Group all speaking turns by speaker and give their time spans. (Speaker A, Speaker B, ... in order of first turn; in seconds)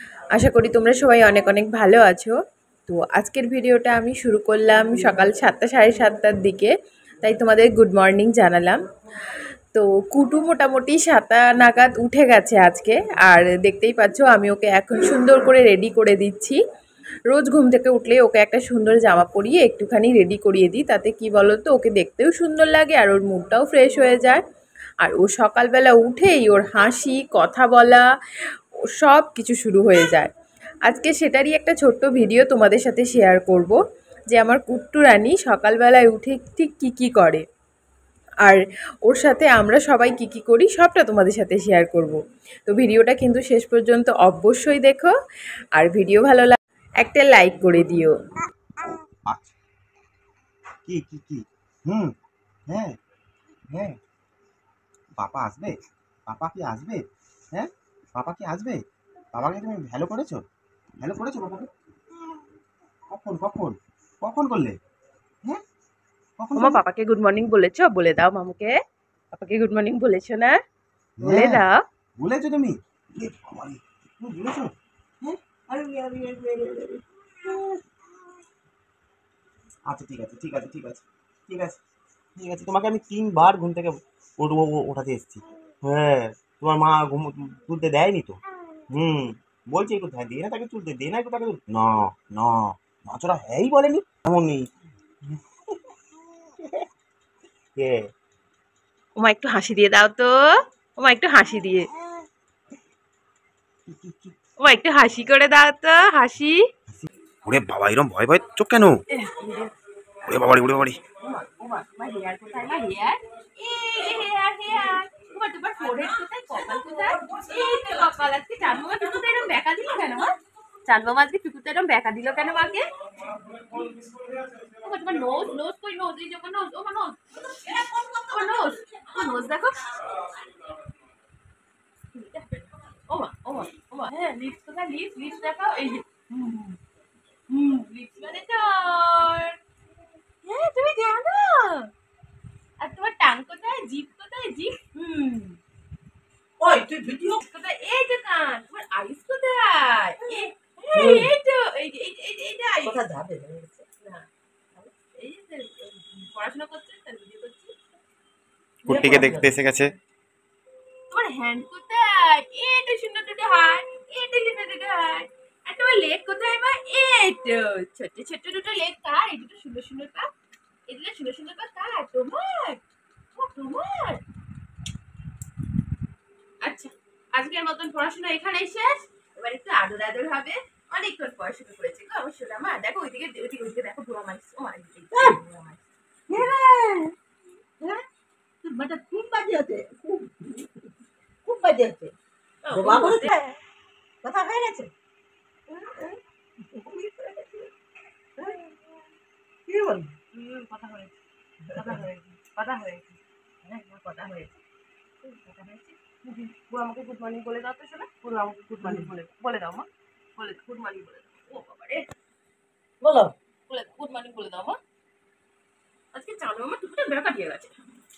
Speaker A: 0.3-2.3, 2.9-8.8, 9.7-16.6, 17.3-24.4, 25.0-28.1, 28.8-30.3, 30.8-33.8, 34.3-37.4, 38.4-45.1, 45.7-48.1, 66.5-68.8, 69.3-70.6, 71.2-71.8, 99.2-101.9, 104.6-106.7, 109.1-109.7, 111.2-124.0, 124.6-130.3, 132.1-136.8, 137.5-139.6, 140.4-141.9, 142.8-145.6, 147.4-153.0, 154.0-157.7, 161.1-170.3, 170.9-172.8, 173.3-174.2, 176.6-185.8, 192.6-193.4, 195.7-196.2, 200.3-201.2, 201.7-204.6, 205.2-212.1, 213.7-214.8, 216.1-217.8
Speaker B: 49.3-49.5, 50.8-52.1, 53.7-54.0, 55.2-55.7, 56.3-57.0, 57.5-58.8, 59.3-60.4, 61.0-61.7, 63.1-64.7, 66.4-66.8, 71.2-71.6, 72.2-74.7, 75.2-77.8, 79.9-81.8, 82.4-88.4, 88.9-94.6, 95.3-95.7, 96.6-96.8, 97.8-98.0, 103.8-104.3, 106.9-109.0, 110.2-111.0, 158.8-159.9
Speaker C: 146.6-147.4, 150.9-151.3, 152.8-153.8, 158.8-159.5, 185.1-185.4, 186.3-187.1, 188.6-190.9, 191.4-192.1, 192.7-193.4, 194.2-194.9, 196.7-197.7, 199.7-200.1, 201.7-202.0, 213.0-213.3